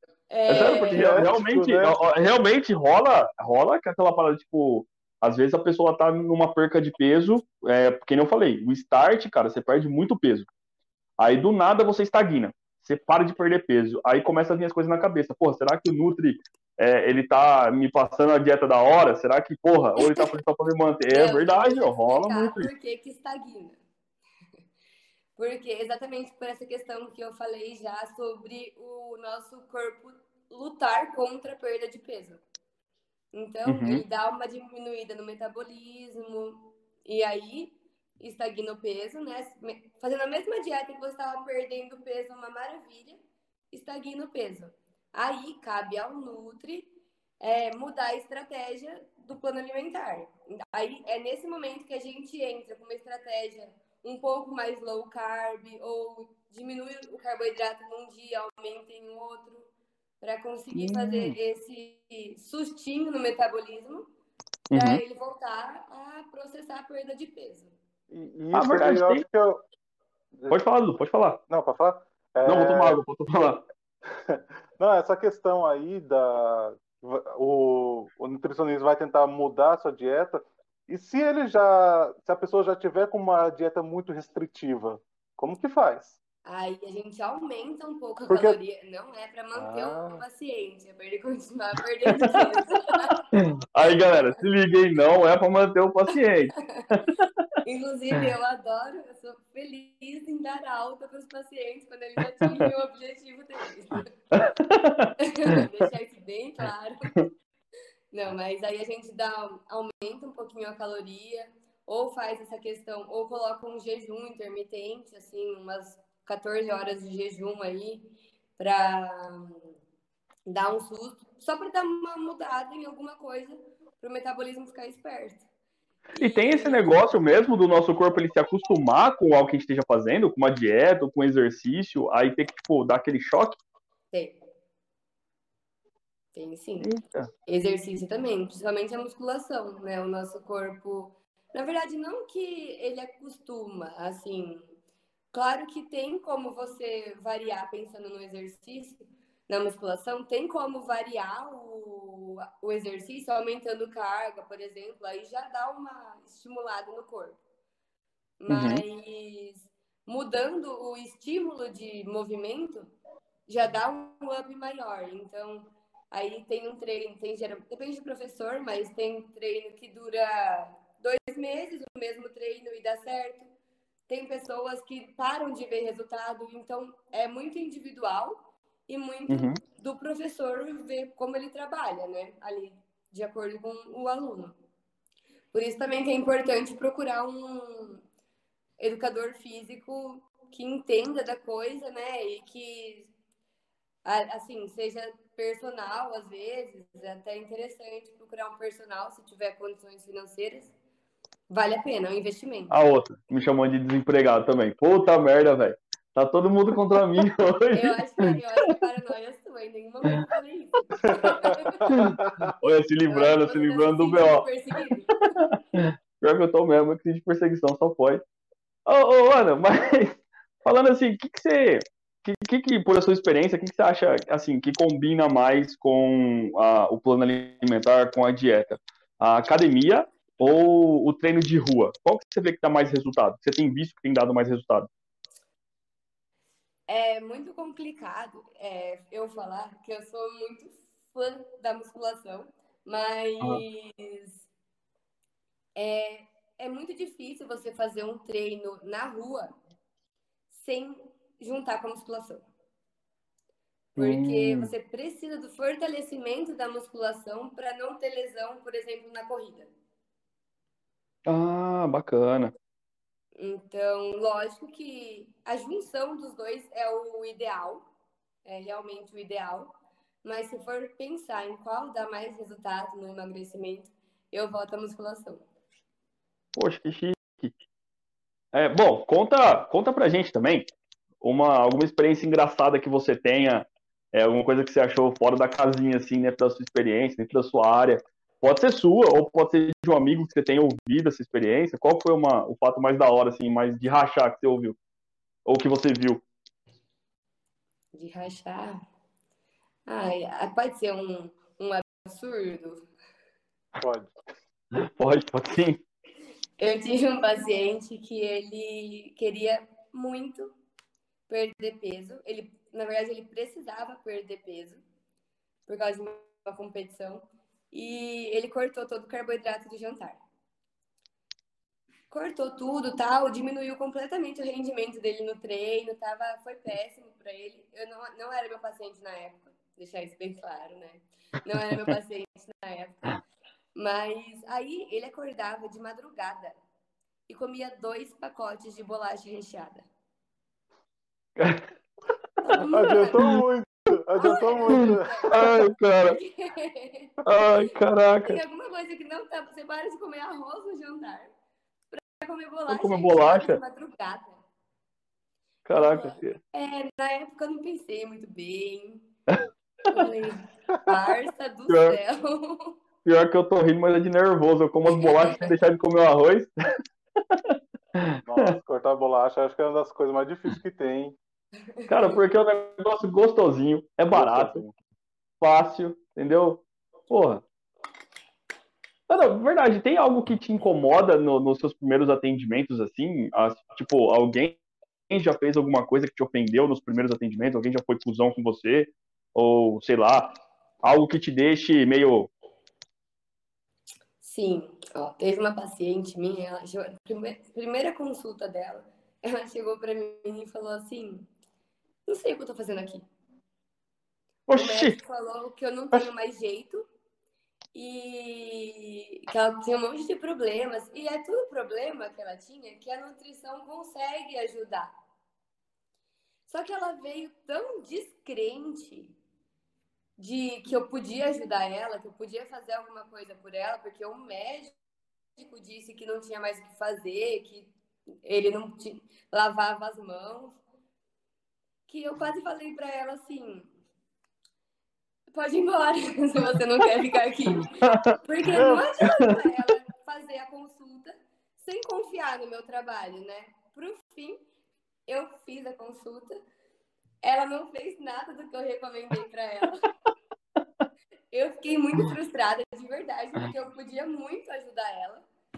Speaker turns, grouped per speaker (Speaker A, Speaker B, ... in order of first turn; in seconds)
Speaker A: 0.3-1.3, 20.0-20.3, 21.1-23.8, 25.4-32.4, 33.3-46.9, 47.4-59.7, 60.2-64.1, 64.7-67.7, 86.5-93.2, 93.8-94.4, 96.6-96.8, 97.6-104.1, 105.2-107.3, 108.1-119.7, 120.5-125.5, 126.1-127.2, 134.1-134.4, 136.3-136.9, 137.5-144.7, 145.3-157.4, 158.4-162.9, 163.5-173.5, 174.1-184.6, 185.5-188.0, 188.8-193.1, 194.1-200.7, 201.5-202.7, 207.7-212.0, 213.1-215.3, 236.9-244.5, 245.8-249.6, 250.5-252.4, 254.0-259.7, 263.4-267.9, 268.4-275.4, 297.9-298.8, 299.9-302.9, 306.6-310.5, 311.3-314.8, 315.7-320.2, 322.1-333.2, 333.8-336.6, 337.3-339.9, 342.4-343.3, 344.2-347.6, 348.2-351.3, 351.9-354.4, 355.7-359.1, 359.9-362.8, 364.9-365.5, 371.8-372.2, 394.2-401.3, 402.1-403.1, 404.6-406.8, 407.7-414.9, 416.5-419.1, 420.2-424.7, 425.4-427.7, 428.2-430.6, 431.9-433.7, 435.3-444.4, 445.1-446.4, 447.2-449.9, 451.3-455.2
Speaker B: 0.5-10.5, 11.2-22.7, 33.7-34.0, 60.7-61.4, 64.7-65.0, 68.5-69.2, 70.5-71.4, 72.5-73.7, 92.1-92.6, 93.4-97.5, 102.4-102.7, 104.3-105.6, 126.2-133.6, 136.8-137.3, 158.5-158.8, 179.3-179.6, 202.7-208.4, 211.9-214.9, 215.5-218.2, 218.9-234.9, 254.0-254.7, 261.3-262.6, 276.6-277.5, 278.5-280.7, 281.2-294.8, 295.5-296.2, 304.8-305.8, 331.7-332.0, 341.4-341.6, 345.3-346.2, 347.3-348.4, 352.7-353.6, 355.6-356.4, 361.7-362.0, 363.1-366.5, 367.3-368.5, 371.9-374.6, 375.4-377.4, 379.1-384.6, 385.1-392.3, 404.5-405.0, 437.5-439.4
Speaker C: 0.9-2.0, 68.1-69.6, 71.5-73.0, 74.3-86.2, 88.3-88.6, 89.5-90.2, 211.9-212.5, 303.8-304.1, 342.7-345.5, 368.2-371.2, 374.1-374.8